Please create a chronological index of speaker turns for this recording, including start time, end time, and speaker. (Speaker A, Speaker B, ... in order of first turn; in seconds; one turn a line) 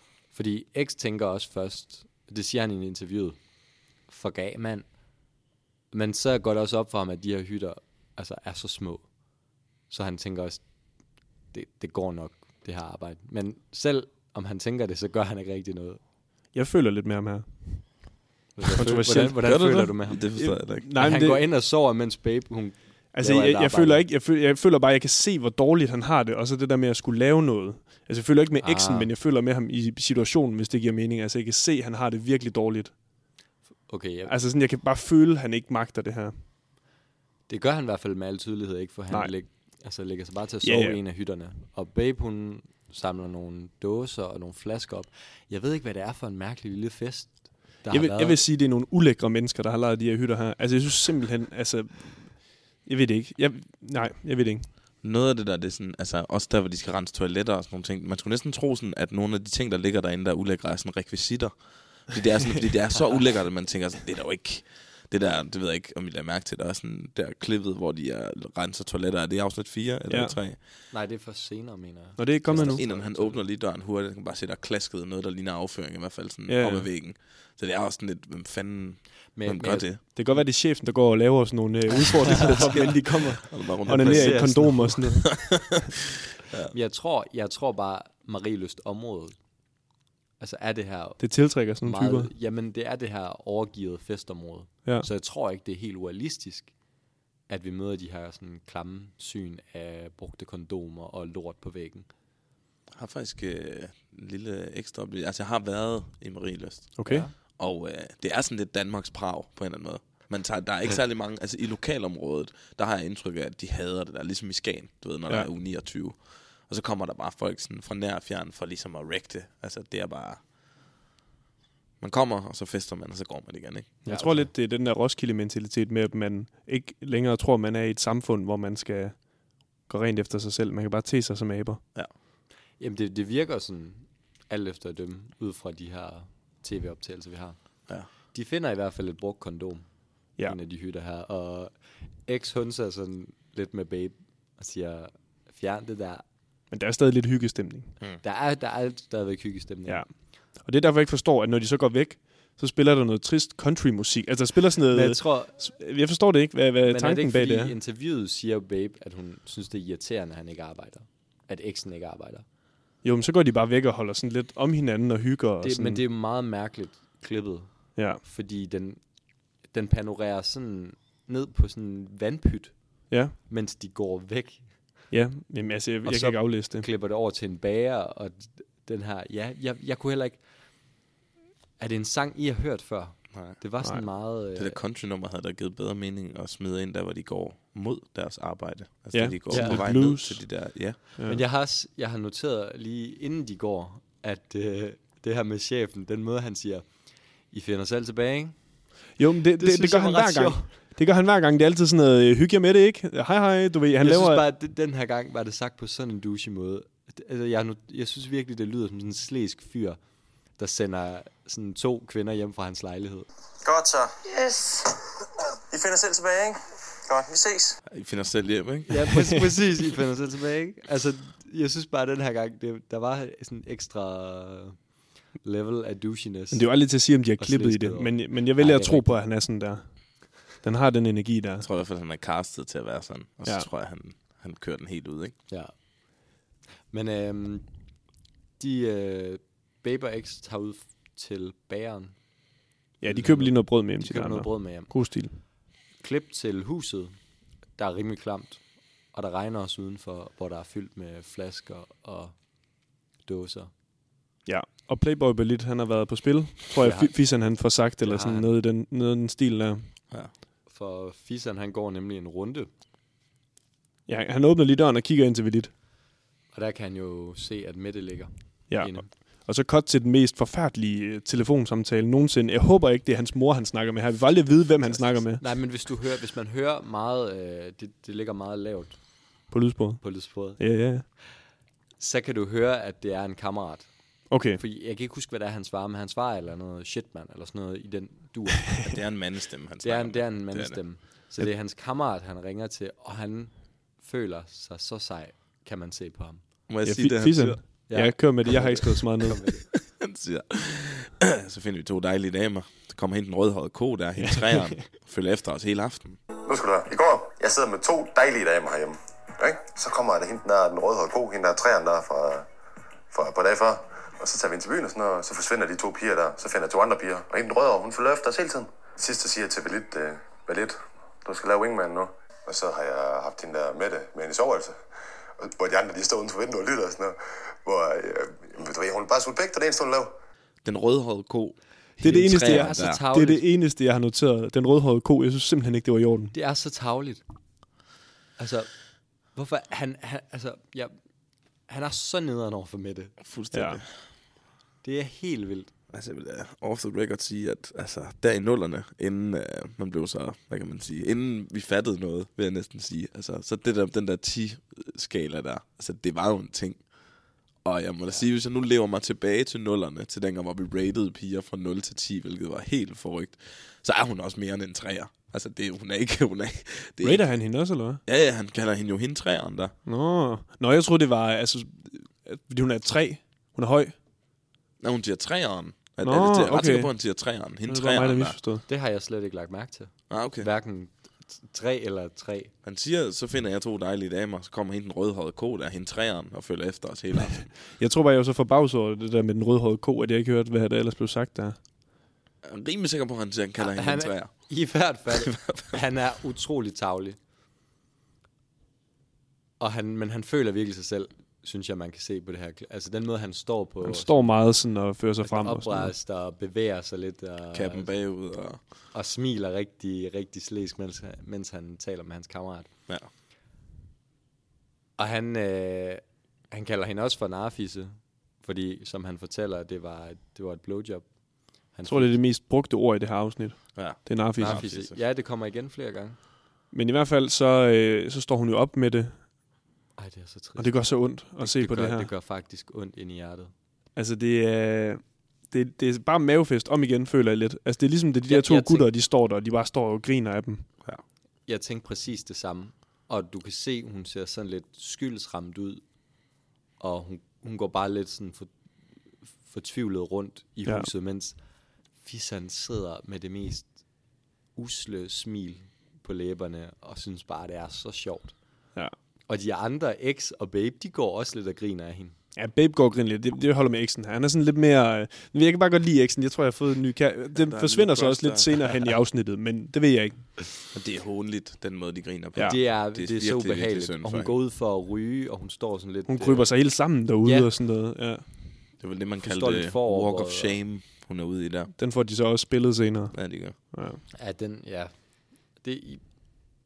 Speaker A: 0.3-3.4
Speaker A: 4.0-4.9
Speaker A: 5.9-9.1
Speaker A: 9.9-10.7
Speaker A: 11.5-16.0
Speaker B: 16.5-18.2
Speaker A: 18.6-20.4
Speaker B: 18.7-19.7
Speaker C: 18.8-20.9
Speaker B: 20.3-21.4
Speaker A: 20.9-24.0
Speaker B: 23.1-33.0
Speaker A: 28.6-29.1
Speaker A: 33.9-34.3
Speaker B: 34.3-36.4
Speaker A: 37.5-48.4
Speaker B: 40.6-41.0
Speaker B: 47.9-54.7
Speaker C: 55.0-70.6
Speaker B: 70.1-70.4
Speaker A: 70.9-73.4
Speaker B: 72.2-72.8
Speaker C: 72.5-80.0
Speaker B: 76.5-76.9
Speaker A: 79.3-79.9
Speaker B: 80.1-85.7
Speaker A: 82.2-85.4
Speaker C: 83.5-85.7
Speaker C: 86.5-86.7
Speaker A: 86.7-89.4
Speaker A: 90.4-91.3
Speaker B: 91.2-92.3
Speaker A: 91.8-96.7
Speaker A: 97.5-102.1
Speaker C: 102.9-120.4
Speaker B: 107.0-107.2
Speaker A: 107.0-107.3
Speaker C: 122.0-124.0
Speaker B: 124.0-129.3
Speaker A: 124.0-124.5
Speaker B: 129.8-131.8
Speaker A: 132.8-137.6
Speaker A: 138.1-141.7
Speaker A: 142.2-146.2
Speaker B: 146.7-148.0
Speaker A: 148.2-150.0
Speaker B: 149.8-157.8
Speaker A: 154.9-155.6
Speaker A: 156.8-162.4
Speaker B: 163.0-166.0
Speaker A: 165.6-169.0
Speaker B: 167.9-168.2
Speaker A: 169.7-174.7
Speaker B: 173.1-173.3
Speaker B: 175.1-176.9
Speaker A: 176.0-180.4
Speaker A: 181.8-184.8
Speaker C: 183.3-183.6
Speaker C: 184.5-191.0
Speaker B: 189.1-191.4
Speaker A: 189.5-189.8
Speaker A: 191.2-198.6
Speaker B: 199.2-204.4
Speaker A: 199.6-200.7
Speaker A: 204.0-210.0
Speaker A: 210.5-213.3
Speaker D: 213.6-214.6
Speaker D: 215.7-217.8
Speaker C: 217.9-219.3
Speaker A: 218.9-224.8
Speaker A: 225.4-226.8
Speaker B: 226.5-231.7
Speaker A: 227.4-229.2
Speaker C: 231.6-235.3
Speaker A: 236.9-237.7
Speaker A: 238.6-242.2
Speaker B: 243.0-245.4
Speaker A: 243.0-244.9
Speaker A: 246.0-247.2
Speaker A: 247.8-248.6
Speaker A: 249.1-252.3
Speaker A: 253.2-253.7
Speaker B: 254.4-259.9
Speaker A: 256.8-257.2
Speaker A: 258.0-258.5
Speaker A: 260.7-262.7
Speaker B: 264.1-265.7
Speaker A: 266.5-269.1
Speaker B: 268.7-275.4
Speaker A: 274.9-279.0
Speaker B: 279.5-281.1
Speaker A: 280.0-280.6
Speaker A: 282.0-288.8
Speaker B: 284.3-284.6
Speaker C: 288.8-290.8
Speaker A: 289.8-296.4
Speaker C: 296.7-297.6
Speaker B: 296.8-299.4
Speaker A: 297.9-299.6
Speaker C: 299.7-306.2
Speaker B: 304.2-304.8
Speaker D: 306.4-312.5
Speaker D: 313.1-324.8
Speaker D: 325.4-330.1
Speaker C: 330.6-333.0
Speaker B: 332.0-336.3
Speaker A: 332.2-333.4
Speaker A: 336.3-337.2
Speaker A: 338.4-338.8
Speaker A: 339.3-340.9
Speaker A: 341.7-343.1
Speaker C: 343.2-343.9
Speaker B: 343.5-343.8
Speaker A: 344.8-345.7
Speaker C: 345.9-356.9
Speaker C: 357.6-367.3
Speaker B: 367.0-368.0
Speaker C: 368.1-369.7
Speaker B: 369.9-373.9
Speaker C: 374.8-378.4
Speaker B: 376.0-378.6
Speaker A: 378.7-382.5
Speaker C: 380.1-380.5
Speaker C: 382.6-387.5
Speaker B: 387.7-391.6
Speaker C: 392.4-394.5
Speaker A: 393.6-397.2
Speaker C: 395.1-395.8
Speaker A: 399.6-404.4
Speaker B: 403.8-405.9
Speaker A: 405.2-407.9
Speaker C: 407.5-408.6
Speaker A: 408.9-412.7
Speaker A: 415.0-421.1
Speaker A: 421.7-422.2
Speaker B: 421.9-424.6
Speaker C: 423.7-425.0
Speaker A: 424.4-426.2
Speaker B: 426.7-429.3
Speaker A: 430.0-433.5
Speaker B: 430.6-432.1
Speaker B: 433.9-440.7
Speaker A: 438.3-438.9
Speaker A: 441.5-445.8
Speaker A: 446.8-448.5
Speaker A: 449.4-451.4
Speaker A: 452.0-453.8
Speaker A: 454.5-458.4
Speaker A: 459.3-462.1
Speaker B: 462.4-470.4
Speaker C: 467.3-468.9
Speaker C: 470.7-474.3
Speaker A: 472.4-476.6
Speaker B: 476.1-478.3
Speaker A: 477.2-477.5
Speaker C: 478.8-481.7
Speaker A: 479.2-480.6
Speaker B: 481.8-484.0
Speaker C: 483.1-483.6
Speaker A: 484.1-486.0